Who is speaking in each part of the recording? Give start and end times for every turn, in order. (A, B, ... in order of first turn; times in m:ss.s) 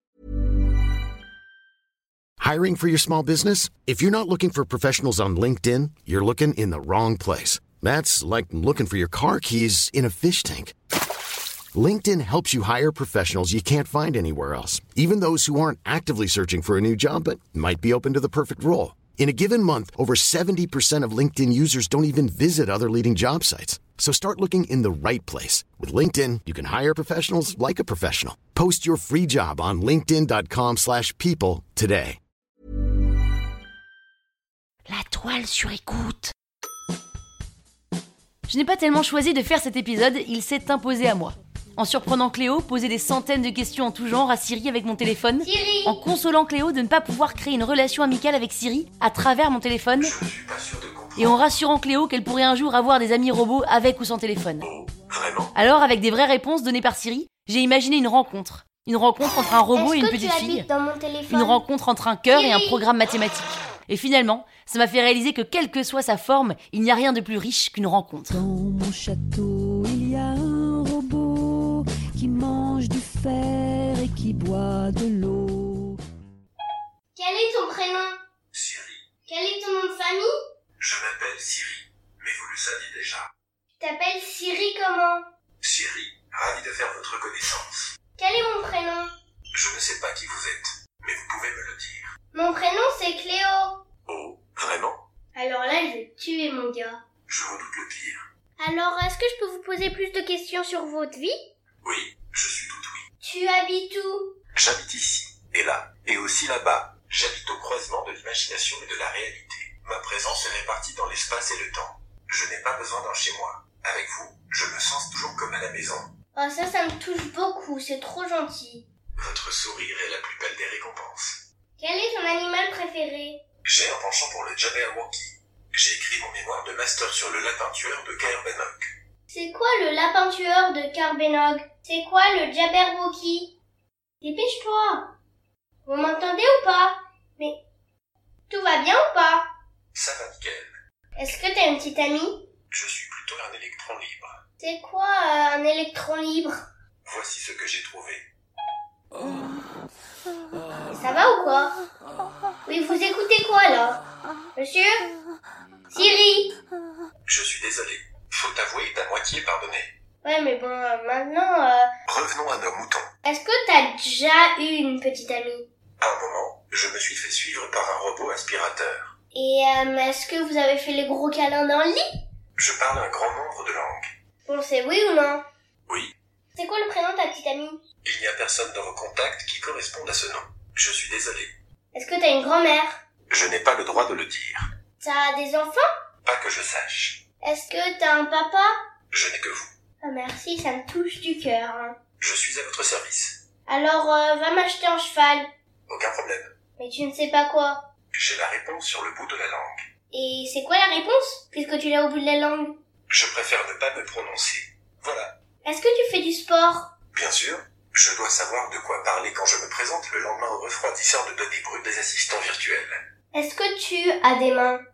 0:02.4-0:10.7 A
0:11.7-0:32.2 A
0:34.9-0:36.3 B
0:38.5-0:50.1 B
0:45.4-0:46.0 C
0:50.0-0:51.5 D
0:51.2-0:54.6 B
0:54.6-0:55.5 D
0:55.6-1:00.7 B
0:59.7-1:01.6 C
1:01.3-1:08.4 B
1:02.3-1:02.9 C
1:08.4-1:16.0 E
1:17.1-1:18.2 C
1:18.5-1:19.0 D
1:19.3-1:20.3 C
1:20.8-1:23.3 D
1:23.8-1:25.2 C
1:25.6-1:27.9 D
1:28.2-1:29.1 C
1:29.5-1:32.1 D
1:32.3-1:33.8 C
1:34.1-1:35.0 D
1:35.3-1:37.0 C
1:37.3-1:38.2 D
1:38.6-1:41.4 C
1:41.8-1:43.0 D
1:43.2-1:44.3 C
1:44.5-1:56.1 D
1:56.3-1:58.9 C
1:59.2-2:01.4 D
2:01.8-2:03.4 C
2:03.6-2:08.9 D
2:09.3-2:13.5 C
2:14.2-2:15.1 C
2:15.8-2:17.6 C
2:18.5-2:19.4 C
2:19.9-2:20.7 D
2:21.2-2:22.5 C
2:22.7-2:24.3 D
2:24.6-2:26.6 C
2:27.0-2:28.3 D
2:30.9-2:31.8 C
2:32.7-2:34.0 C
2:34.6-2:35.1 C
2:35.9-2:36.5 C
2:37.2-2:39.9 D
2:40.2-2:41.9 C
2:42.1-2:43.1 D
2:43.2-2:45.7 C
2:46.0-2:49.1 D
2:49.3-2:52.0 C
2:52.6-2:54.1 D
2:54.5-2:55.4 C
2:56.5-2:57.8 C
2:58.0-3:01.5 D
3:01.9-3:03.0 C
3:03.3-3:04.6 D
3:05.0-3:05.8 C
3:06.2-3:07.2 D
3:07.4-3:08.7 C
3:09.1-3:09.7 D
3:10.0-3:12.0 C
3:12.2-3:13.4 D
3:13.7-3:15.5 C
3:15.9-3:16.5 D
3:16.8-3:17.8 C
3:18.1-3:19.8 D
3:20.1-3:22.8 C
3:23.1-3:25.3 D
3:25.6-3:26.9 C
3:27.1-3:33.0 D
3:33.3-3:34.8 C